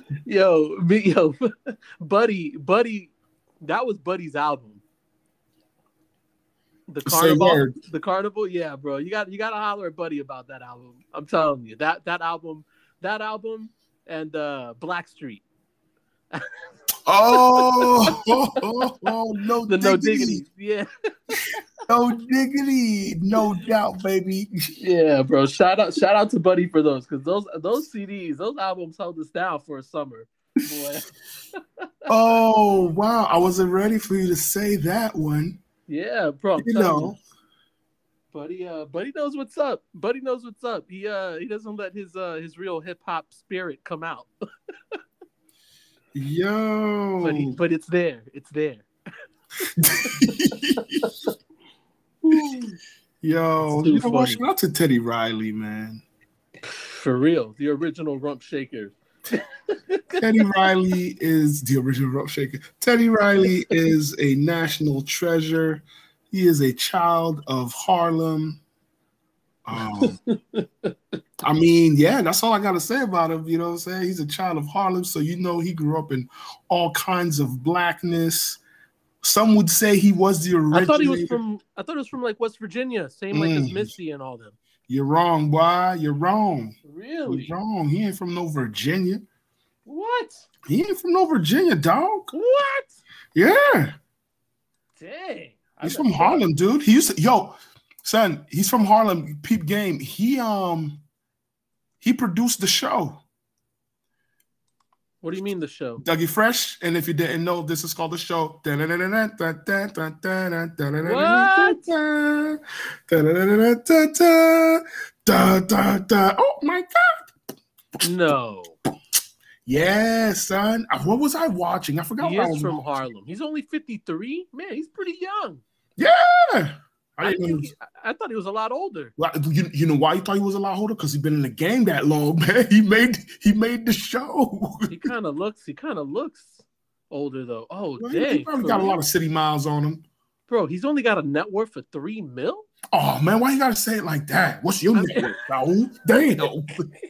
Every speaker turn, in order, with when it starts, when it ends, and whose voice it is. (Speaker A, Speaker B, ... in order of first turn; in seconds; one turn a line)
Speaker A: 0.2-4.8
Speaker A: 6.9-15.4
Speaker B: 7.0-7.8
Speaker B: 17.1-20.4
Speaker A: 17.3-18.6
Speaker A: 19.7-21.6
Speaker B: 21.9-24.7
Speaker A: 24.8-31.8
Speaker B: 32.1-35.6
Speaker A: 35.9-37.1
Speaker B: 36.6-37.2
Speaker A: 38.3-44.3
Speaker B: 46.1-47.6
Speaker A: 47.2-48.9
Speaker A: 49.6-51.3
Speaker B: 49.8-51.1
Speaker A: 52.2-52.8
Speaker B: 53.2-56.0
Speaker A: 53.7-54.4
Speaker A: 56.7-60.2
Speaker B: 60.2-68.6
Speaker B: 69.6-70.2
Speaker A: 70.0-70.9
Speaker B: 71.4-78.6
Speaker B: 79.2-81.4
Speaker A: 80.7-84.5
Speaker B: 83.3-83.9
Speaker B: 84.9-89.2
Speaker A: 86.8-87.5
Speaker A: 89.8-90.5
Speaker B: 90.7-92.3
Speaker A: 92.3-92.9
Speaker B: 93.3-94.0
Speaker A: 95.0-96.4
Speaker B: 95.8-101.0
Speaker B: 102.0-103.2
Speaker A: 105.2-106.0
Speaker B: 106.0-117.3
Speaker A: 111.0-111.8
Speaker A: 118.0-118.8
Speaker B: 119.7-122.8
Speaker A: 122.2-125.6
Speaker B: 126.0-127.7
Speaker A: 127.2-129.1
Speaker B: 129.2-135.1
Speaker A: 134.9-139.0
Speaker B: 138.0-140.0
Speaker A: 140.5-142.7
Speaker B: 142.9-146.9
Speaker A: 144.9-145.2